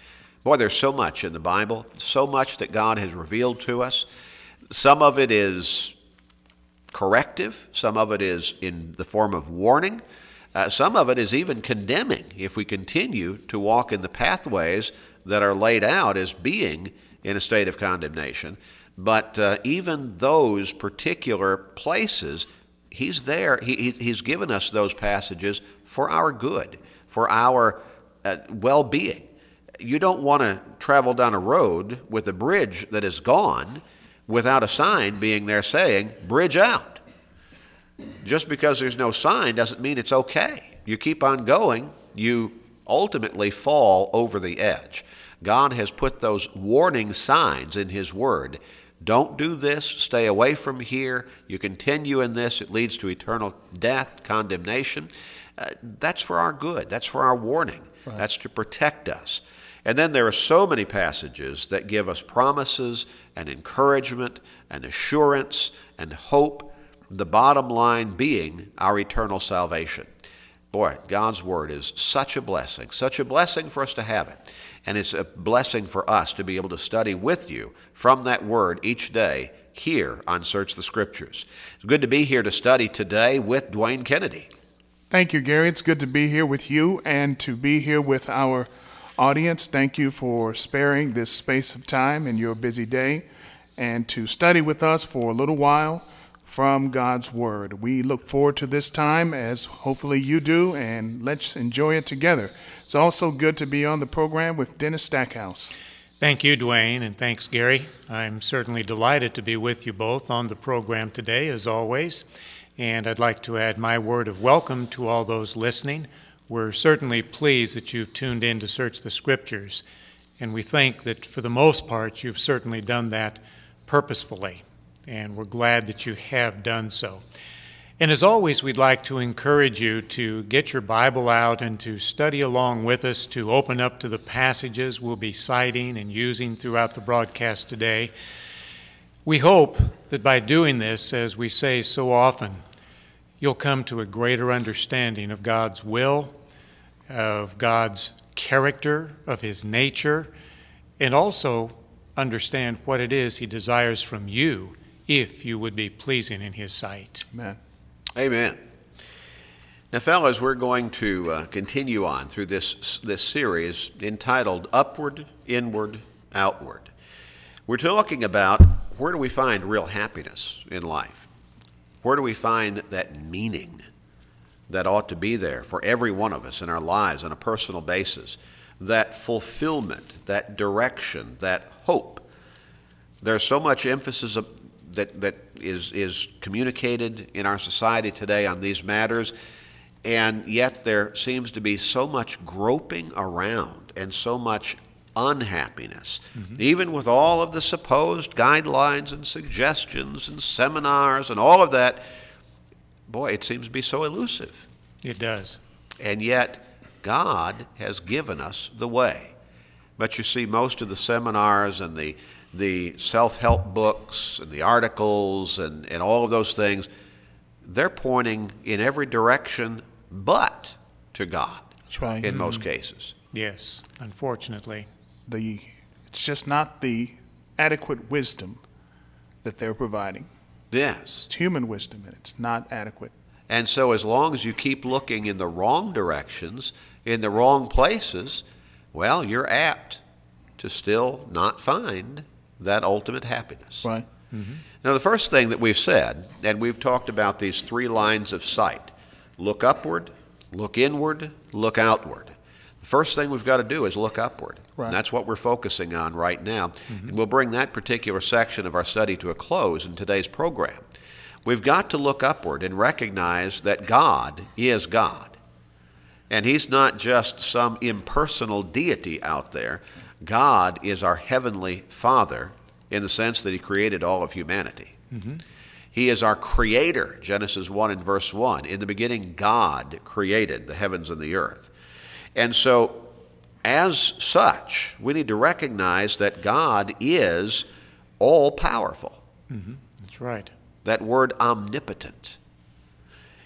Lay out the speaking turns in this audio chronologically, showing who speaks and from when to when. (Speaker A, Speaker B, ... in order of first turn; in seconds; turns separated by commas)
Speaker A: 0.4-4.1, Speaker A: 4.7-5.9, Speaker A: 6.9-10.0, Speaker A: 10.5-29.3, Speaker A: 29.8-37.0, Speaker A: 38.2-70.1, Speaker A: 70.7-84.5, Speaker B: 85.1-93.3, Speaker B: 93.8-105.7, Speaker C: 106.2-112.2, Speaker C: 112.8-119.8, Speaker C: 120.4-127.2, Speaker C: 128.0-138.1, Speaker C: 139.3-142.6, Speaker C: 143.4-146.3, Speaker C: 147.1-150.3, Speaker C: 151.0-157.3, Speaker B: 157.3-157.6, Speaker A: 158.2-158.6, Speaker A: 159.9-166.9, Speaker A: 167.7-171.3, Speaker A: 172.0-173.9, Speaker A: 174.7-182.3, Speaker A: 183.2-189.3, Speaker A: 190.0-202.0, Speaker A: 203.1-204.7, Speaker C: 205.0-205.6, Speaker A: 206.0-209.3, Speaker A: 210.0-216.9, Speaker A: 217.6-223.1, Speaker B: 221.9-222.3, Speaker C: 222.3-222.6, Speaker C: 223.3-224.9, Speaker B: 225.3-228.6, Speaker B: 229.4-230.3, Speaker A: 230.7-231.3, Speaker B: 231.3-233.1, Speaker A: 233.5-240.0, Speaker A: 240.6-243.9, Speaker C: 244.3-244.6, Speaker A: 244.8-260.8, Speaker A: 261.4-265.4, Speaker A: 266.3-275.0, Speaker C: 275.1-275.4, Speaker A: 275.9-281.7, Speaker A: 282.4-283.1, Speaker A: 283.6-287.7, Speaker A: 288.2-289.2, Speaker C: 289.5-290.5, Speaker A: 290.8-292.4